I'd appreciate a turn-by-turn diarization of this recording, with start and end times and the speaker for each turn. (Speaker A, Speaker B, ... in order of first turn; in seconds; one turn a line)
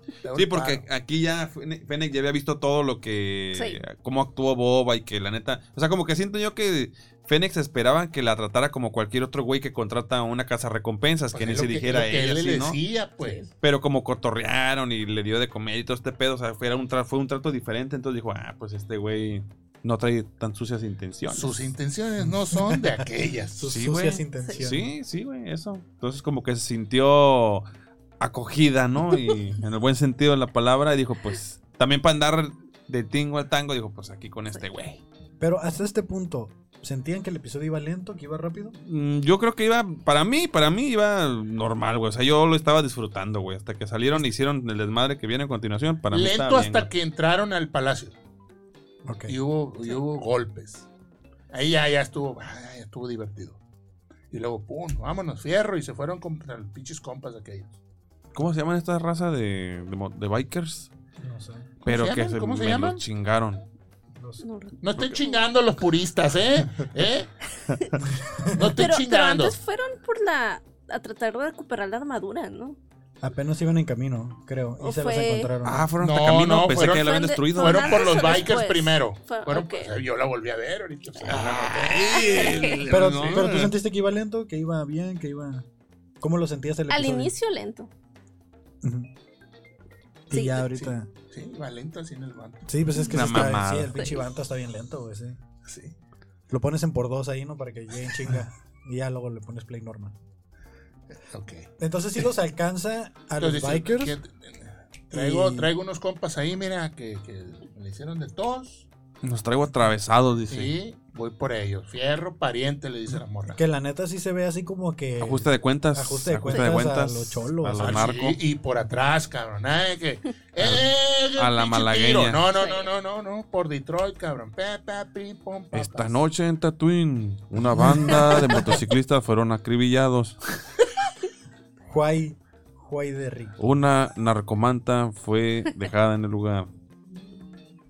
Speaker A: 0.2-0.8
Speaker B: 0.3-12.8
Speaker C: 3.5-3.8
Speaker A: 11.3-13.4
Speaker C: 13.2-13.5
Speaker B: 13.6-21.7
Speaker A: 21.3-23.7
Speaker D: 22.2-23.0
Speaker D: 23.6-24.9
Speaker B: 23.7-27.6
Speaker B: 28.2-35.0
Speaker D: 35.4-38.7
Speaker B: 38.8-46.9
Speaker A: 46.1-48.2
Speaker D: 49.0-49.3
Speaker A: 49.3-50.9
Speaker A: 51.5-53.6
Speaker A: 54.3-57.7
Speaker B: 58.3-60.9
Speaker D: 61.2-61.7
Speaker A: 61.8-63.0
Speaker B: 61.8-63.6
Speaker D: 64.1-64.4
Speaker C: 64.4-65.4
Speaker A: 64.8-67.3
Speaker D: 68.0-68.7
Speaker A: 68.5-69.5
Speaker C: 68.7-72.8
Speaker D: 73.2-75.8
Speaker C: 74.8-75.5
Speaker B: 75.6-78.2
Speaker A: 76.0-83.4
Speaker C: 76.9-79.9
Speaker C: 81.1-81.4
Speaker B: 81.2-83.7
Speaker C: 81.9-82.8
Speaker D: 82.9-85.7
Speaker D: 86.2-87.3
Speaker C: 86.9-87.9
Speaker D: 88.8-89.1
Speaker D: 90.3-91.1
Speaker C: 90.3-90.7
Speaker A: 90.7-92.7
Speaker D: 92.7-95.4
Speaker C: 92.9-94.2
Speaker B: 93.0-94.1
Speaker A: 95.6-95.9
Speaker D: 96.5-100.1
Speaker A: 101.2-101.7
Speaker D: 101.8-104.2
Speaker A: 103.4-108.9
Speaker D: 105.1-105.7
Speaker B: 109.2-110.7
Speaker A: 110.5-113.6
Speaker D: 113.5-118.0
Speaker B: 115.2-118.4
Speaker C: 116.5-116.8
Speaker A: 117.8-126.2
Speaker B: 120.6-122.4
Speaker C: 122.5-122.9
Speaker B: 125.7-130.4
Speaker D: 127.8-128.8
Speaker A: 127.8-128.2
Speaker D: 131.9-133.6
Speaker B: 133.6-136.7